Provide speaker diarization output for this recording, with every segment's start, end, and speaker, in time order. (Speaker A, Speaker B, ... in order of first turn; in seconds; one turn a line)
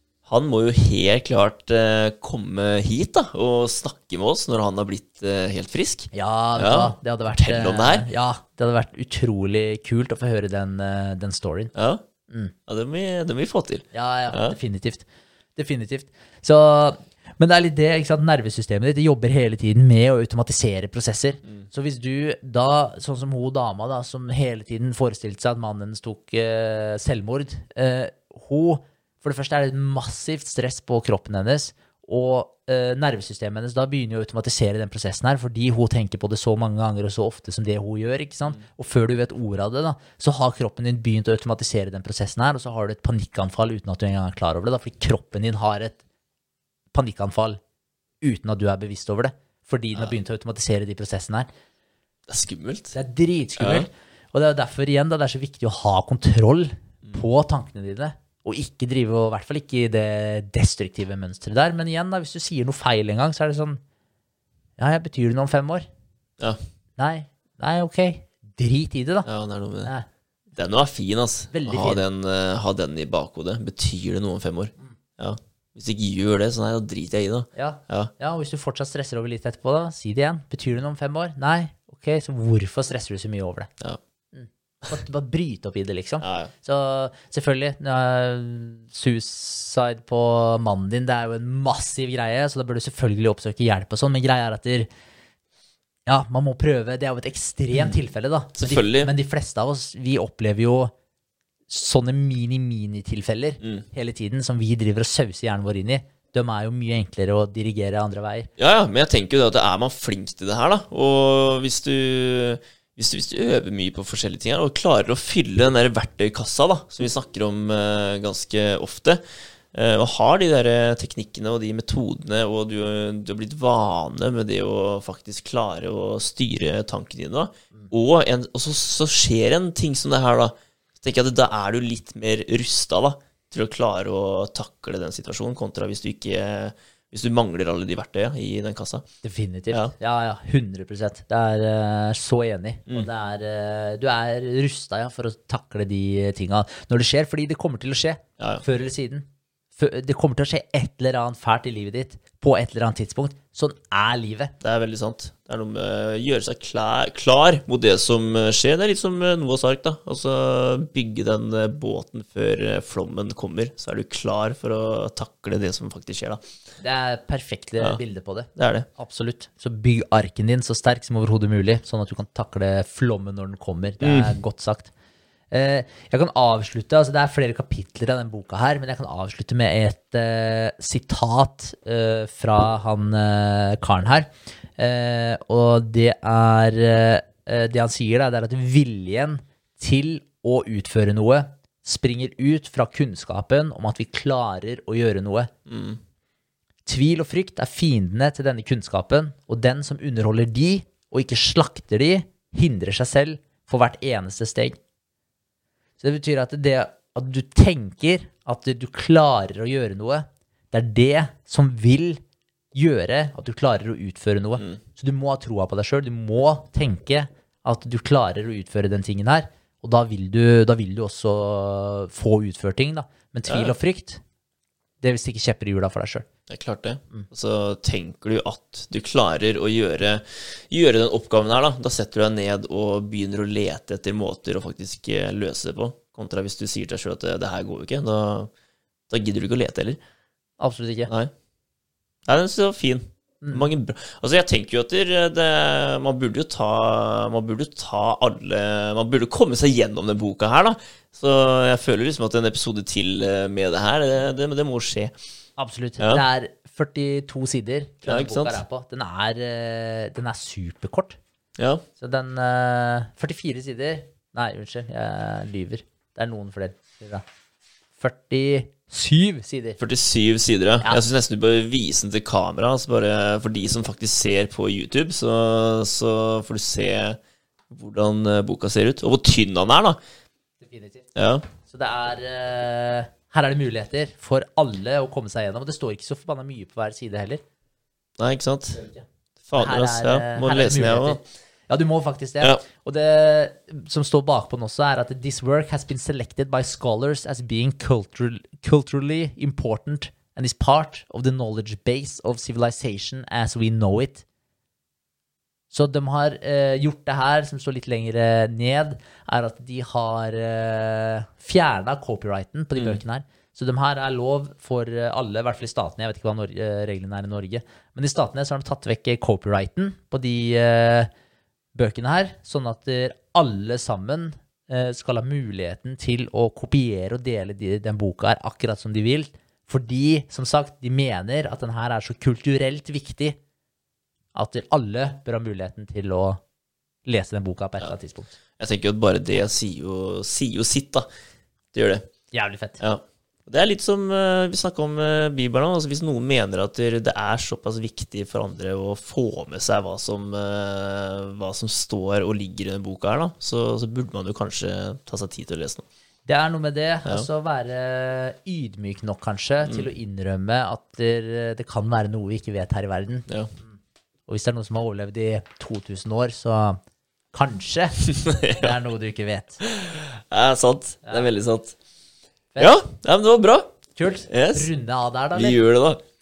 Speaker A: 0.2-8.1
Speaker B: 6.1-11.7
Speaker A: 11.7-12.0
Speaker B: 12.3-12.5
Speaker A: 12.7-14.6
Speaker B: 13.9-46.0
Speaker B: 46.9-47.6
Speaker B: 48.2-51.5
Speaker A: 52.3-53.0
Speaker B: 52.9-63.8
Speaker A: 53.6-53.9
Speaker B: 64.8-65.8
Speaker B: 67.0-69.3
Speaker A: 69.2-69.9
Speaker A: 70.5-78.1
Speaker B: 71.5-72.0
Speaker B: 77.5-83.7
Speaker B: 84.3-94.9
Speaker A: 86.2-86.5
Speaker B: 96.0-100.9
Speaker A: 98.5-99.1
Speaker B: 101.7-108.5
Speaker A: 108.6-119.2
Speaker A: 119.7-139.0
Speaker B: 139.2-154.5
Speaker A: 148.4-148.6
Speaker A: 154.6-166.5
Speaker B: 166.8-174.9
Speaker A: 168.6-168.9
Speaker A: 174.0-174.4
Speaker B: 175.5-195.5
Speaker A: 195.7-196.0
Speaker B: 196.8-204.8
Speaker B: 206.0-212.2
Speaker B: 212.7-224.2
Speaker A: 223.5-223.7
Speaker B: 225.0-226.3
Speaker A: 226.5-238.5
Speaker A: 239.1-240.0
Speaker B: 240.6-241.1
Speaker A: 242.3-255.2
Speaker B: 243.4-243.7
Speaker B: 255.6-261.2
Speaker A: 258.0-258.6
Speaker A: 261.6-261.8
Speaker B: 262.0-267.2
Speaker B: 268.0-269.8
Speaker A: 269.8-277.2
Speaker A: 277.7-280.0
Speaker B: 280.6-281.1
Speaker A: 281.1-281.4
Speaker B: 281.6-287.4
Speaker A: 288.2-288.8
Speaker B: 288.8-289.0
Speaker A: 289.5-291.2
Speaker B: 289.6-304.2
Speaker B: 305.7-321.1
Speaker B: 321.7-333.4
Speaker B: 334.3-336.4
Speaker B: 337.1-338.3
Speaker A: 338.6-341.1
Speaker A: 341.7-342.1
Speaker B: 342.3-342.8
Speaker A: 342.8-355.9
Speaker B: 356.2-363.7
Speaker B: 364.3-366.8
Speaker B: 367.3-369.6
Speaker A: 368.1-368.7
Speaker A: 369.6-371.8
Speaker B: 371.0-371.3
Speaker A: 372.6-373.7
Speaker B: 373.9-375.6
Speaker A: 374.3-374.7
Speaker A: 375.3-376.0